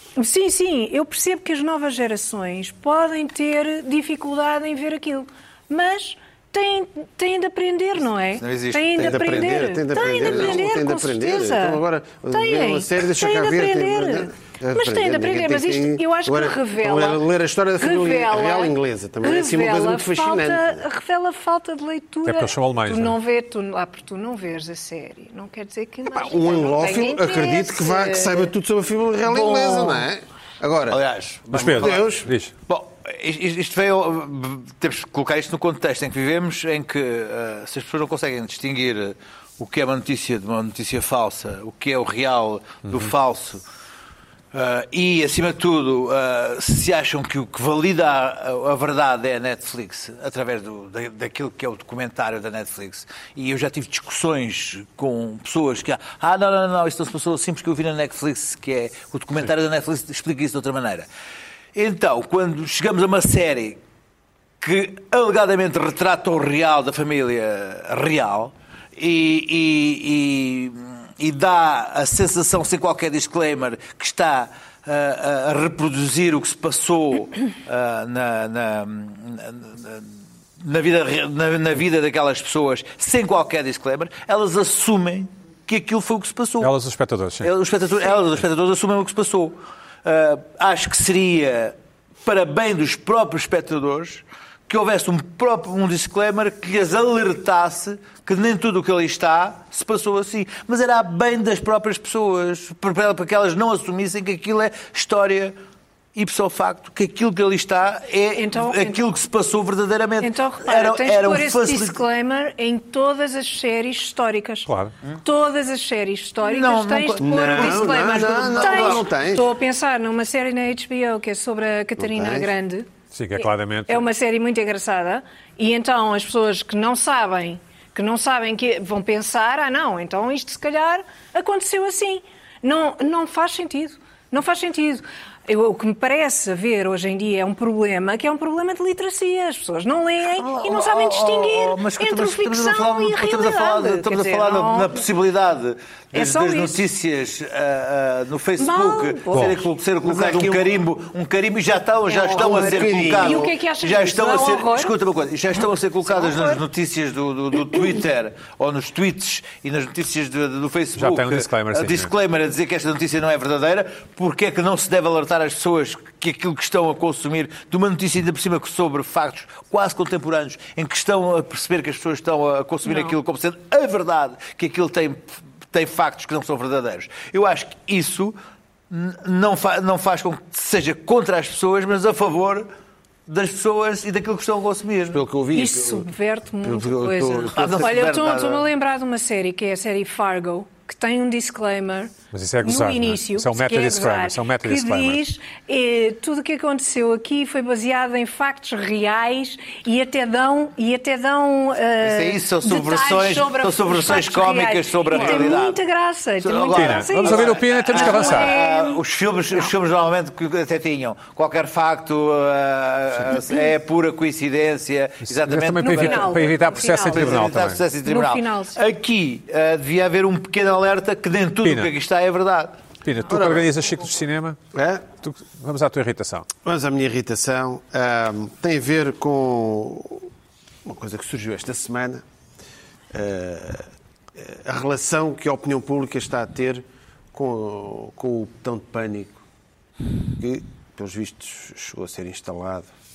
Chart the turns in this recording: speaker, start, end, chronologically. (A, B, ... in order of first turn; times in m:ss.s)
0:00.2-0:17.2 A
0:08.4-0:10.6 B
0:09.0-0:20.8 C
0:17.8-0:28.5 A
0:22.3-0:23.2 D
0:26.1-0:32.3 C
0:29.3-0:30.1 B
0:30.9-0:32.2 B
0:31.5-0:32.5 D
0:32.7-0:43.6 B
0:44.5-1:01.1 B
1:01.8-1:03.8 B
1:04.6-1:20.1 B
1:20.6-1:26.7 B
1:26.6-1:27.5 D
1:27.4-1:45.6 B
1:46.2-1:52.0 B
1:48.4-1:49.0 A
1:50.2-1:54.7 A
1:54.7-1:54.9 D
1:55.2-2:02.9 A
1:56.4-1:59.1 B
1:57.2-1:59.5 C
2:02.0-2:02.5 C
2:03.1-2:04.0 D
2:03.4-2:25.0 A
2:20.3-2:58.4 B
2:26.1-2:26.8 A
2:28.6-2:29.6 A
2:30.0-2:30.8 C
2:32.1-2:34.9 A
2:32.3-2:33.5 C
2:36.1-2:36.6 A
2:41.0-2:42.1 D
2:52.8-2:53.2 A
2:58.9-3:02.7 B
3:03.3-3:05.2 B
3:05.1-3:08.0 C
3:05.5-3:12.1 A
3:07.5-3:08.7 B
3:12.3-3:15.2 D
3:12.6-3:29.0 A
3:22.0-3:25.8 B
3:26.4-3:42.8 B
3:26.7-3:28.5 D
3:35.3-3:37.8 D
3:35.8-3:38.8 A
3:41.6-3:41.9 D
3:43.0-3:44.6 D
3:43.3-3:43.7 C
3:44.7-3:45.0 C
3:45.2-3:46.5 D
3:46.6-3:50.3 C
3:50.8-3:52.2 C
3:53.1-3:59.4 C
4:00.3-4:02.9 C